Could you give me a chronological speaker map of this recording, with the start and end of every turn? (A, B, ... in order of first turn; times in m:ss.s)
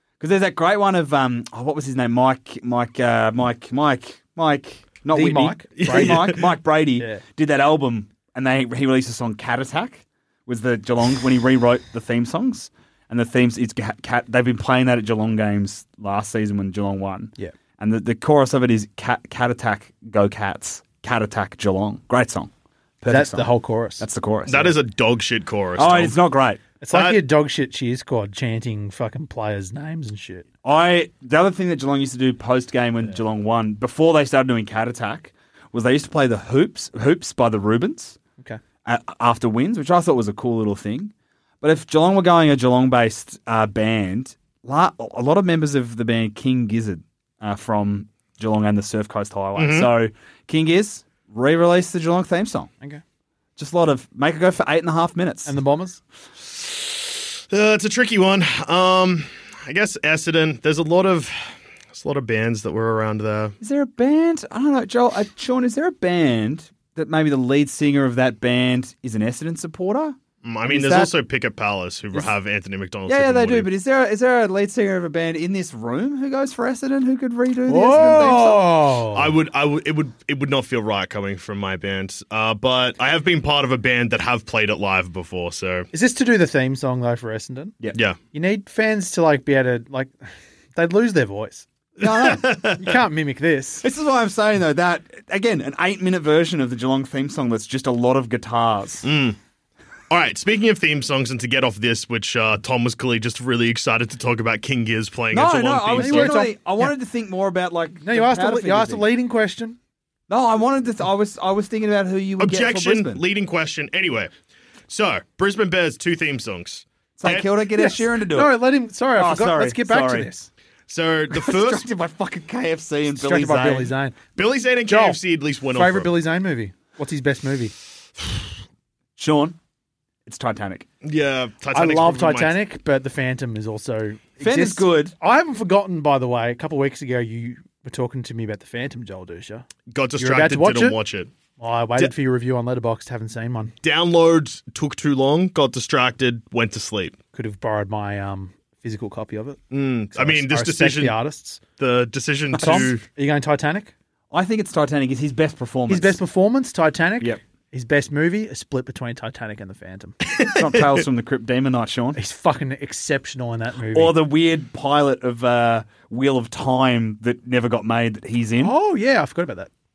0:00.2-0:22.5 A
0:05.1-0:06.4 B
0:05.8-0:06.4 C
0:07.0-0:07.2 B
0:23.0-0:24.8 A
0:23.1-0:24.0 B
0:24.5-0:26.2 C
0:25.8-0:26.6 A
0:26.8-0:30.5 B
0:26.9-0:27.2 C
0:30.6-0:38.2 A
0:38.8-0:52.7 A
0:49.6-0:49.9 C
0:53.6-0:55.5 A
0:55.5-0:56.0 B
0:56.6-1:03.6 C
1:03.6-1:11.1 A
1:10.4-1:13.7 C
1:13.1-1:18.7 A
1:17.7-1:19.3 B
1:18.0-1:18.3 C
1:19.1-1:25.9 C
1:25.9-1:27.7 B
1:28.3-1:31.7 B
1:32.0-1:32.5 A
1:32.0-1:32.9 C
1:32.8-1:33.8 B
1:33.8-1:39.1 A
1:39.0-1:39.4 C
1:40.1-1:46.4 C
1:45.3-1:49.1 A
1:46.0-1:46.9 B
1:48.0-1:49.8 B
1:50.3-1:53.2 A
1:52.4-1:54.3 C
1:54.9-1:57.5 C
1:57.2-1:58.6 A
1:57.8-2:00.5 B
1:59.2-2:00.3 A
2:00.9-2:01.9 C
2:01.3-2:03.9 A
2:03.2-2:04.2 B
2:04.4-2:06.1 C
2:04.9-2:05.2 B
2:05.7-2:07.7 B
2:09.2-2:09.6 A
2:10.3-2:10.9 A
2:11.0-2:12.6 C
2:11.7-2:19.7 B
2:14.4-2:15.2 A
2:19.9-2:21.3 C
2:20.2-2:21.0 B
2:21.6-2:23.7 B
2:23.8-2:27.2 C
2:27.3-2:29.6 B
2:29.7-2:31.2 C
2:30.1-2:31.6 B
2:31.8-2:33.0 C
2:32.5-2:32.9 A
2:32.6-2:33.9 B
2:34.3-2:36.2 A
2:35.9-2:40.2 B
2:40.3-2:41.0 C
2:40.6-2:42.2 A
2:42.2-2:44.2 B
2:43.9-2:48.7 A
2:48.6-2:49.7 B